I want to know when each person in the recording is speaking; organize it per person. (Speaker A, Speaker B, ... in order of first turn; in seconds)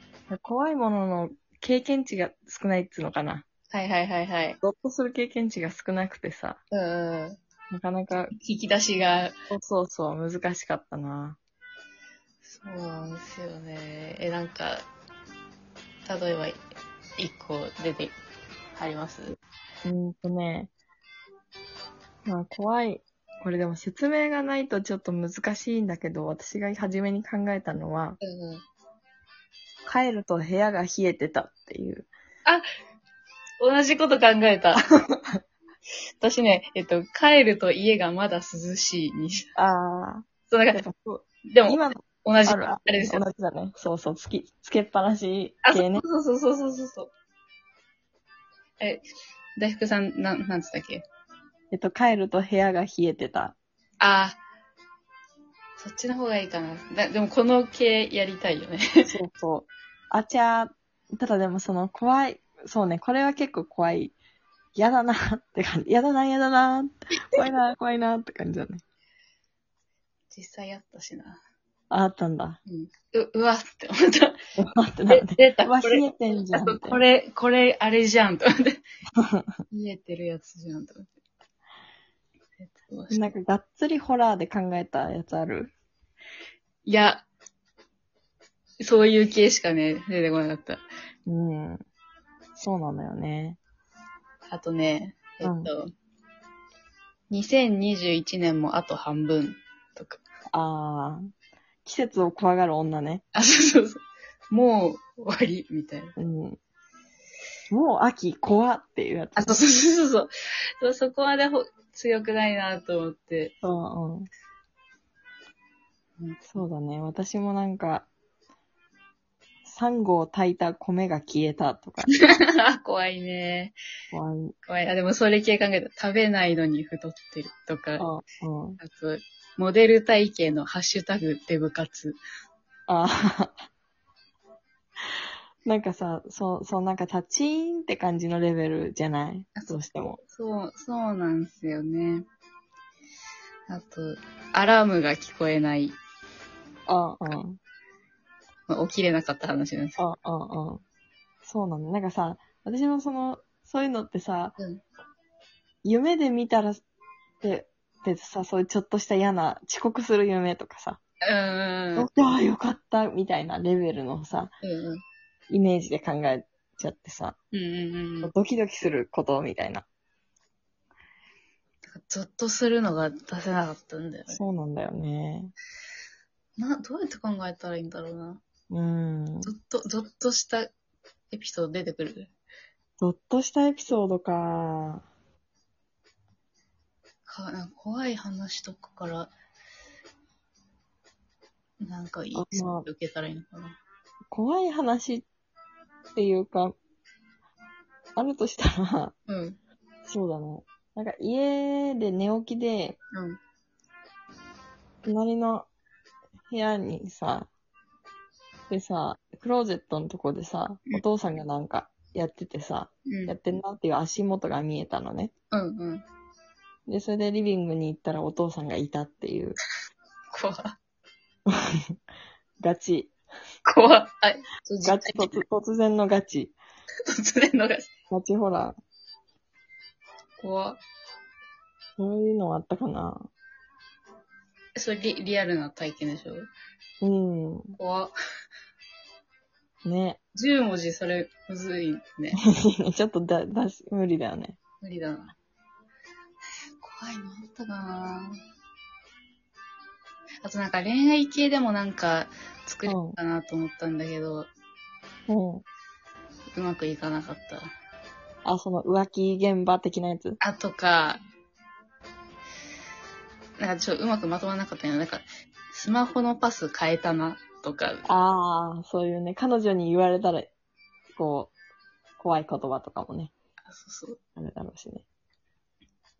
Speaker A: 0.3-3.4, 4.6-6.6, 7.7-8.3, 9.5-11.4, 19.8-20.7, 22.2-28.2, 29.9-32.1, 39.5-46.0, 51.7-53.5, 59.1-64.1, 64.7-68.8, 71.9-72.6, 74.6-77.0, 79.2-79.5, 83.1-85.7, 91.2-91.8, 92.6-93.6, 95.4-95.7, 100.5-101.3, 101.8-103.2, 106.2-106.6, 107.7-109.6, 113.6-114.3, 116.5-118.1, 119.6-122.1, 124.1-124.5, 128.0-128.8, 132.9-133.6, 135.6-140.2, 146.9-147.6, 150.0-150.8, 151.4-154.6, 155.8-156.8, 157.4-161.0, 161.9-164.5, 165.5-167.3, 168.2-169.8, 174.3-175.5, 178.7-179.5, 183.0-185.0, 192.3-192.8, 194.3-195.3, 196.1-196.7, 198.2-199.1, 200.1-203.0, 205.0-205.7, 206.5-207.5, 208.7-215.3, 216.9-219.6, 221.5-221.9, 222.6-223.1, 224.8-226.5, 228.1-228.8, 232.0-233.3, 237.0-237.8, 239.8-240.2, 242.6-244.6, 252.8-253.2, 255.3-255.6, 258.4-260.4, 268.1-270.5, 271.1-271.5, 272.2-273.3, 274.4-275.0
Speaker B: 3.7-4.6, 6.7-7.4, 8.3-9.3, 12.4-14.8, 16.0-16.6, 17.2-18.1, 18.7-19.4, 28.2-28.6, 33.6-34.8, 36.2-39.5, 40.5-40.8, 41.5-43.2, 45.6-47.1, 48.8-49.0, 49.6-51.0, 54.0-54.4, 55.8-59.1, 70.3-71.4, 72.7-74.4, 75.1-78.8, 79.7-81.1, 82.6-83.3, 86.8-87.3, 88.8-90.8, 94.5-95.9, 97.3-100.2, 103.3-106.1, 109.3-110.3, 110.8-113.5, 116.2-116.5, 122.1-123.8, 124.7-128.1, 128.8-132.2, 139.6-142.2, 143.7-146.0, 148.7-150.0, 154.6-154.8, 161.2-162.1, 164.6-165.0, 167.5-168.3, 171.8-174.4, 176.6-178.4, 179.4-180.7, 181.3-182.3, 187.2-189.3, 191.8-193.8, 199.3-199.6, 203.1-203.4, 213.1-213.3, 215.5-216.0, 220.3-220.8, 223.6-225.4, 227.1-227.9, 230.4-230.8, 234.8-236.5, 237.8-238.1, 240.3-242.4, 244.8-245.3, 246.8-248.4, 250.4-254.5, 256.5-257.7, 260.4-261.2, 263.6-268.1, 273.6-274.2